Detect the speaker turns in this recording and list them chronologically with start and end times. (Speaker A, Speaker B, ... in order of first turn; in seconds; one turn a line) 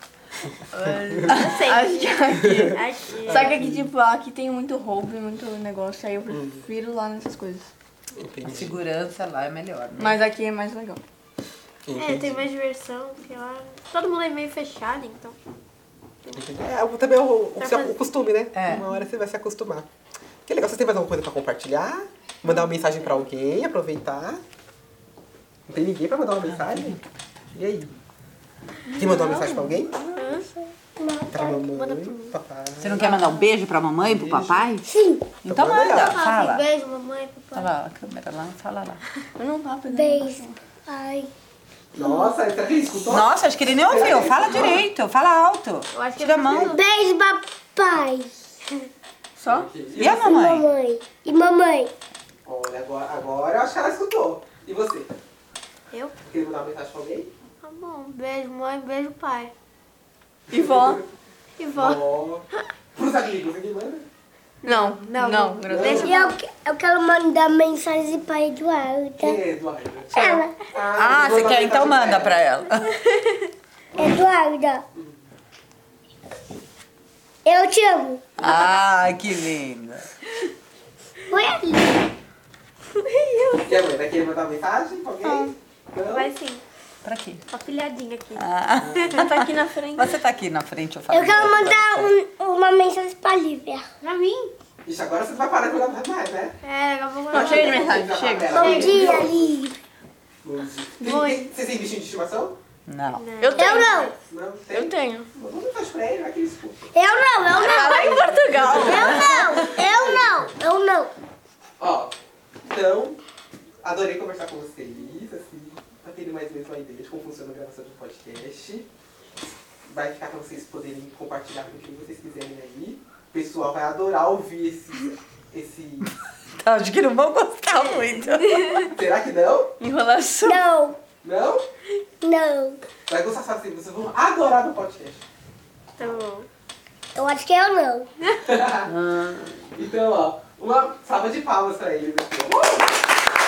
Speaker A: 0.7-7.7
Speaker B: 0.8-1.2
Speaker C: 1.3-3.6
Speaker D: 1.3-1.6
Speaker B: 2.3-3.9
Speaker B: 6.3-6.6
Speaker B: 8.2-8.8
Speaker D: 8.4-10.2
Speaker A: 10.0-11.0
Speaker B: 11.9-12.5
Speaker C: 12.0-15.4
Speaker B: 16.3-19.9
Speaker C: 17.6-18.2
Speaker D: 18.5-18.9
Speaker B: 20.5-24.4
Speaker B: 25.7-27.0
Speaker D: 26.5-27.0
Speaker B: 27.5-27.9
Speaker A: 28.9-30.5
Speaker B: 29.0-30.0
Speaker C: 30.1-30.5
Speaker E: 31.0-31.3
Speaker B: 31.3-33.1
Speaker C: 31.3-32.3
Speaker D: 32.8-34.9
Speaker B: 34.0-34.7
Speaker E: 34.8-35.3
Speaker D: 35.4-36.6
Speaker B: 35.5-36.1
Speaker C: 35.9-37.7
Speaker D: 37.5-39.0
Speaker A: 39.4-40.6
Speaker E: 39.9-41.3
Speaker B: 41.9-44.8
Speaker D: 43.0-46.7
Speaker C: 45.9-46.8
Speaker E: 46.6-48.5
Speaker A: 49.4-49.7
Speaker B: 49.5-50.3
Speaker D: 50.0-50.7
Speaker E: 50.1-51.9
Speaker B: 52.5-55.1
Speaker C: 55.9-56.2
Speaker B: 56.2-57.3
Speaker C: 57.6-59.5
Speaker A: 60.5-61.0
Speaker C: 61.6-62.1
Speaker B: 61.8-64.1
Speaker C: 64.6-66.4
Speaker A: 64.6-66.3
Speaker B: 65.7-66.1
Speaker E: 66.0-69.4
Speaker B: 69.2-72.4
Speaker E: 70.1-70.6
Speaker D: 70.9-72.9
Speaker E: 74.0-74.8
Speaker E: 77.5-78.2
Speaker D: 78.4-80.1
Speaker E: 81.3-82.1
Speaker C: 83.0-83.8
Speaker B: 83.7-86.3
Speaker D: 85.2-85.5
Speaker C: 86.0-86.6
Speaker D: 87.0-87.4
Speaker C: 87.5-89.2
Speaker D: 88.4-92.2
Speaker A: 89.1-90.2
Speaker E: 91.1-93.9
Speaker C: 94.0-94.5
Speaker B: 94.8-96.6
Speaker C: 96.6-99.3
Speaker A: 97.3-98.8
Speaker B: 97.3-99.4
Speaker E: 98.5-99.8
Speaker B: 100.4-102.6
Speaker A: 101.0-101.5
Speaker D: 102.9-103.3
Speaker C: 103.1-104.1
Speaker A: 103.4-104.0
Speaker E: 103.6-104.2
Speaker B: 104.1-106.9
Speaker A: 104.7-105.3
Speaker E: 106.9-111.1
Speaker A: 107.5-109.5
Speaker B: 108.3-110.5
Speaker B: 111.8-113.2
Speaker B: 113.8-118.9
Speaker B: 119.9-126.1
Speaker D: 126.6-128.9
Speaker C: 128.1-128.9
Speaker B: 128.8-129.8
Speaker A: 129.8-130.7
Speaker E: 130.4-131.0
Speaker B: 131.2-131.7
Speaker E: 132.2-132.8
Speaker B: 133.1-135.2
Speaker C: 136.0-136.5
Speaker E: 137.2-138.1
Speaker B: 138.4-138.9
Speaker D: 138.8-139.7
Speaker B: 139.7-143.0